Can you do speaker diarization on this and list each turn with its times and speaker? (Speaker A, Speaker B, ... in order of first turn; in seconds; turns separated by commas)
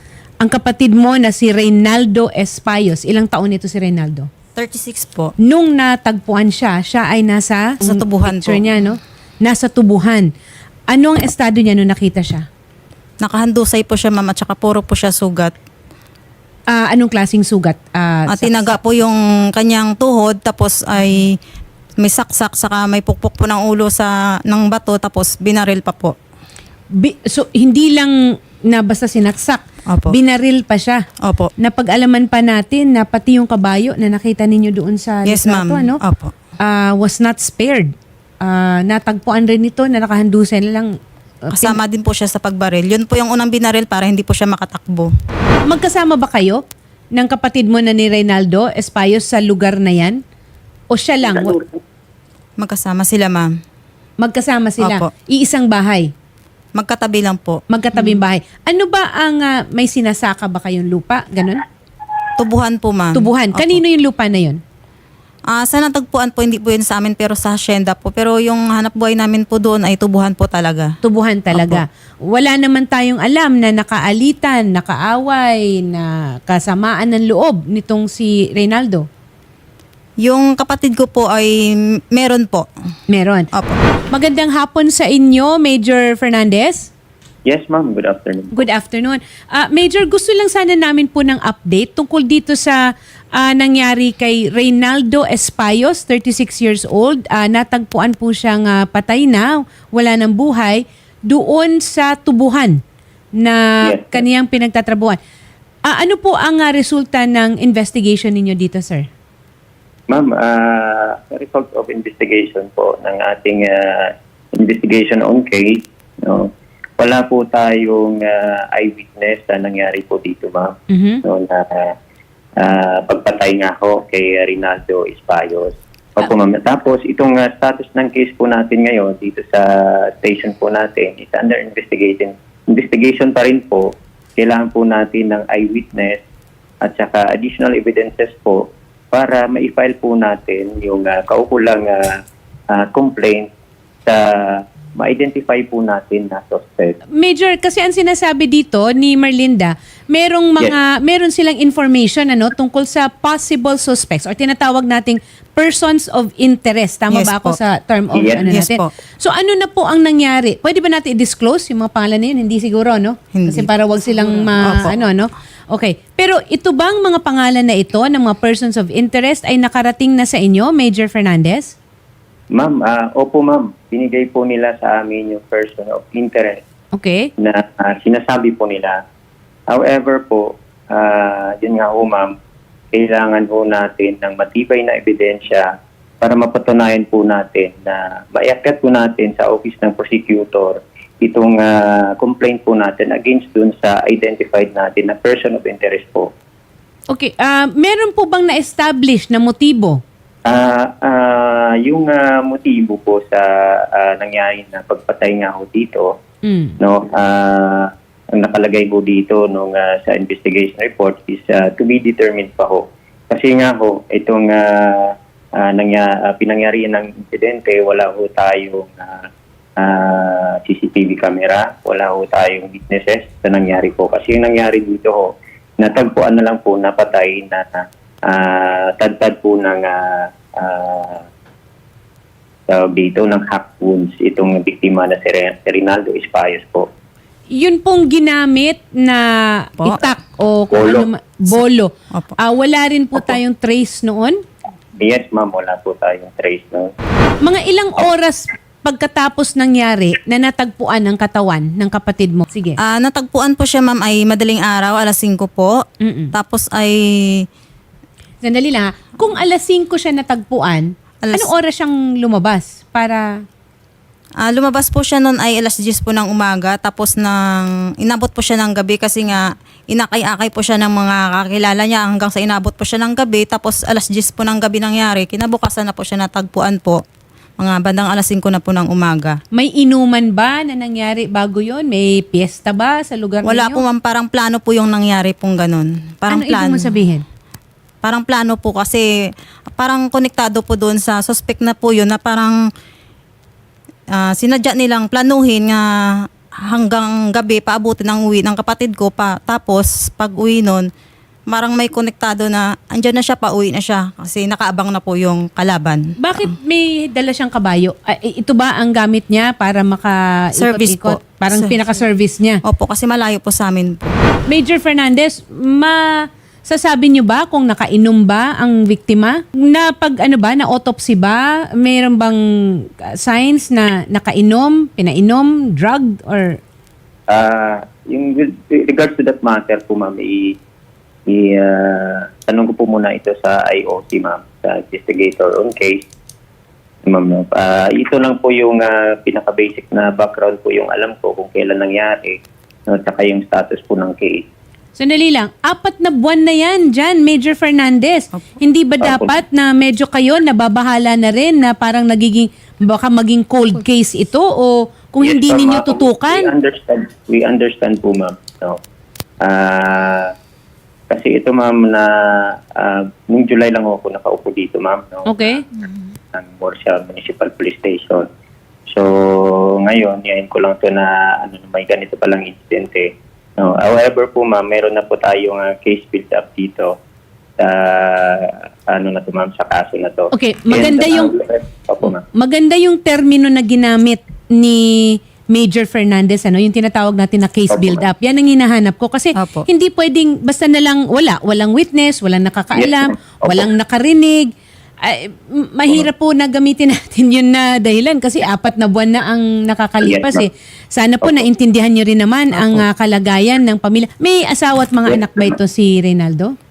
Speaker A: 0.4-4.3, Speaker B: 4.5-5.3, Speaker A: 5.4-10.3, Speaker B: 7.8-8.6, Speaker A: 10.9-12.4, Speaker B: 13.2-15.5, Speaker A: 16.7-18.7, Speaker B: 18.3-21.3, Speaker B: 22.0-26.1, Speaker A: 26.9-28.1, Speaker A: 28.7-31.0, Speaker B: 29.9-30.1, Speaker B: 31.2-31.5, Speaker A: 31.6-36.0, Speaker B: 35.2-36.3, Speaker A: 36.6-37.9, Speaker A: 38.4-40.9, Speaker A: 41.5-41.8, Speaker B: 41.5-45.1, Speaker A: 45.7-46.6, Speaker A: 47.1-50.2, Speaker A: 50.9-51.6, Speaker C: 51.2-51.8, Speaker B: 52.6-53.5, Speaker A: 54.2-56.1, Speaker B: 54.8-55.1, Speaker B: 56.7-57.6, Speaker A: 57.7-61.6, Speaker B: 62.4-63.8, Speaker A: 63.1-64.6, Speaker B: 65.5-70.9, Speaker A: 71.0-79.0, Speaker B: 71.5-71.8, Speaker B: 80.2-81.6, Speaker B: 82.1-82.7, Speaker A: 83.1-83.5, Speaker B: 83.5-83.8, Speaker A: 84.1-86.9, Speaker C: 87.5-88.7, Speaker A: 88.5-92.8, Speaker A: 93.3-102.8, Speaker A: 103.4-105.2, Speaker C: 103.8-104.2, Speaker A: 105.8-109.1, Speaker C: 110.1-121.9, Speaker A: 120.9-121.2, Speaker C: 122.6-136.2, Speaker C: 136.8-142.2, Speaker C: 142.7-143.5, Speaker C: 144.1-147.0, Speaker A: 147.1-171.7, Speaker B: 157.1-157.6, Speaker C: 158.1-158.5, Speaker B: 158.4-158.9, Speaker B: 163.3-163.7, Speaker B: 164.6-164.9, Speaker C: 172.5-176.6, Speaker A: 176.9-177.3, Speaker C: 177.4-179.0, Speaker C: 179.7-182.3, Speaker C: 182.9-185.7, Speaker C: 186.2-196.3, Speaker A: 197.1-200.0, Speaker C: 200.4-206.1, Speaker A: 206.4-206.8, Speaker C: 206.8-219.2, Speaker C: 219.8-231.2, Speaker C: 232.7-236.9, Speaker A: 237.5-244.4, Speaker C: 240.7-241.1, Speaker C: 245.0-246.9, Speaker A: 247.4-252.8, Speaker B: 252.8-255.7, Speaker A: 256.0-256.3, Speaker B: 256.3-257.4, Speaker A: 258.4-263.4, Speaker B: 261.2-261.5, Speaker B: 264.4-277.0, Speaker B: 277.6-279.4, Speaker A: 279.5-283.8, Speaker B: 283.4-286.9, Speaker A: 286.3-287.2, Speaker B: 288.0-289.1, Speaker B: 289.7-292.6, Speaker B: 294.1-295.8, Speaker B: 296.6-300.9, Speaker B: 301.5-306.0, Speaker A: 306.2-312.6, Speaker B: 310.6-311.8, Speaker B: 312.6-314.1, Speaker A: 314.5-316.0, Speaker A: 316.6-322.4, Speaker A: 323.2-326.6, Speaker C: 327.3-330.6, Speaker C: 331.3-336.0, Speaker C: 337.1-344.4, Speaker A: 344.9-356.5, Speaker C: 349.0-349.4, Speaker C: 355.2-358.8, Speaker C: 359.4-360.3, Speaker C: 361.1-362.1, Speaker C: 362.7-365.6, Speaker A: 365.3-365.6, Speaker C: 366.3-368.3, Speaker C: 368.9-376.9, Speaker C: 377.6-382.2, Speaker A: 380.3-381.3, Speaker A: 382.3-394.5, Speaker C: 387.7-388.0, Speaker B: 389.4-389.7, Speaker C: 392.7-393.7, Speaker A: 395.0-406.5, Speaker C: 400.0-400.4, Speaker C: 405.1-405.6